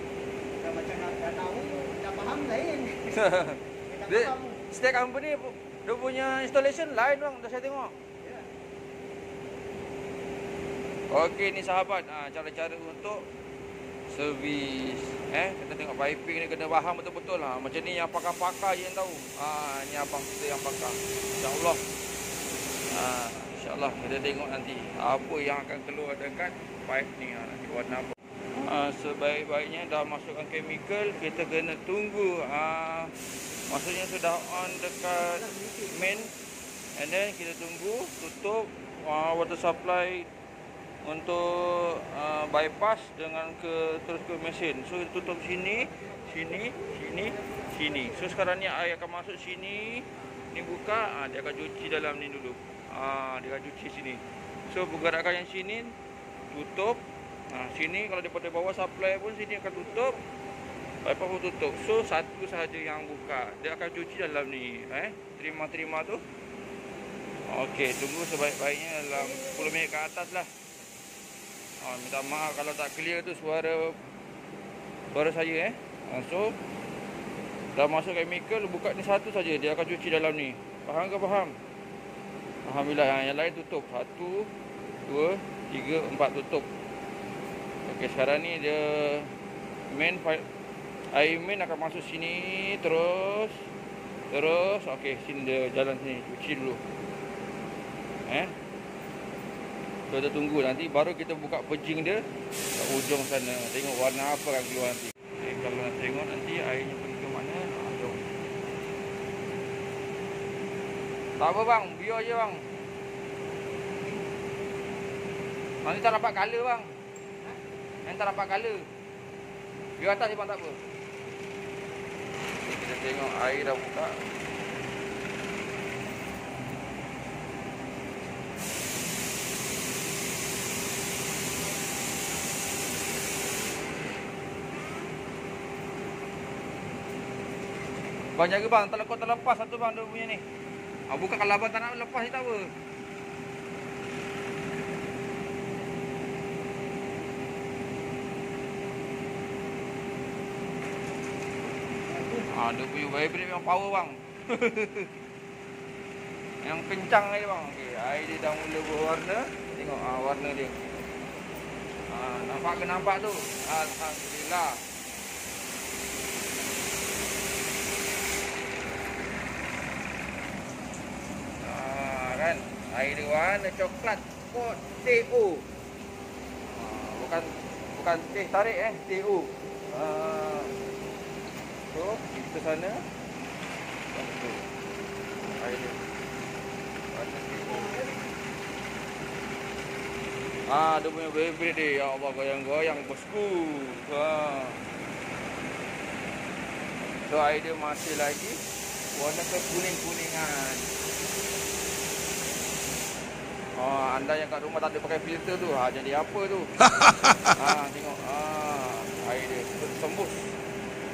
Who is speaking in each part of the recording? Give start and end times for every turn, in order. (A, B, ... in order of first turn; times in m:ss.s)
0:00.6-0:03.2 A
0:03.1-0:07.9 B
0:03.9-0:04.6 A
0:08.2-0:08.5 A
0:11.1-0:13.2 B
0:14.1-0:21.8 B
0:22.9-0:33.1 B
0:33.7-0:36.3 B
0:35.2-0:36.3 A
0:37.0-0:40.3 B
0:41.0-0:56.0 B
0:56.5-1:00.2 B
1:01.0-1:06.2 B
1:07.5-1:10.5 B
1:11.8-1:14.0 B
1:15.1-1:16.6 B
1:17.8-1:21.6 B
1:22.7-1:24.5 B
1:25.1-1:26.7 B
1:27.9-1:29.3 B
1:29.9-1:30.5 B
1:31.1-1:33.6 B
1:34.3-1:36.8 B
1:38.3-1:38.6 B
1:40.1-1:48.2 B
1:51.4-1:52.6 B
1:55.8-1:57.0 B
1:58.1-1:58.9 B
2:00.0-2:00.8 B
2:02.6-2:04.2 B
2:18.4-2:20.4 B
2:21.1-2:22.7 B
2:32.1-2:32.5 A
2:32.5-2:35.1 B
2:36.6-2:40.8 B
2:42.1-2:44.8 B
2:51.6-2:55.7 B
2:56.7-3:00.7 B
3:01.9-3:03.0 B
3:04.1-3:04.6 B
3:05.6-3:06.0 B
3:07.1-3:07.9 B
3:07.6-3:08.3 A
3:10.7-3:14.8 B
3:17.2-3:18.6 B
3:19.1-3:20.9 B
3:23.8-3:26.8 B
3:27.4-3:30.6 B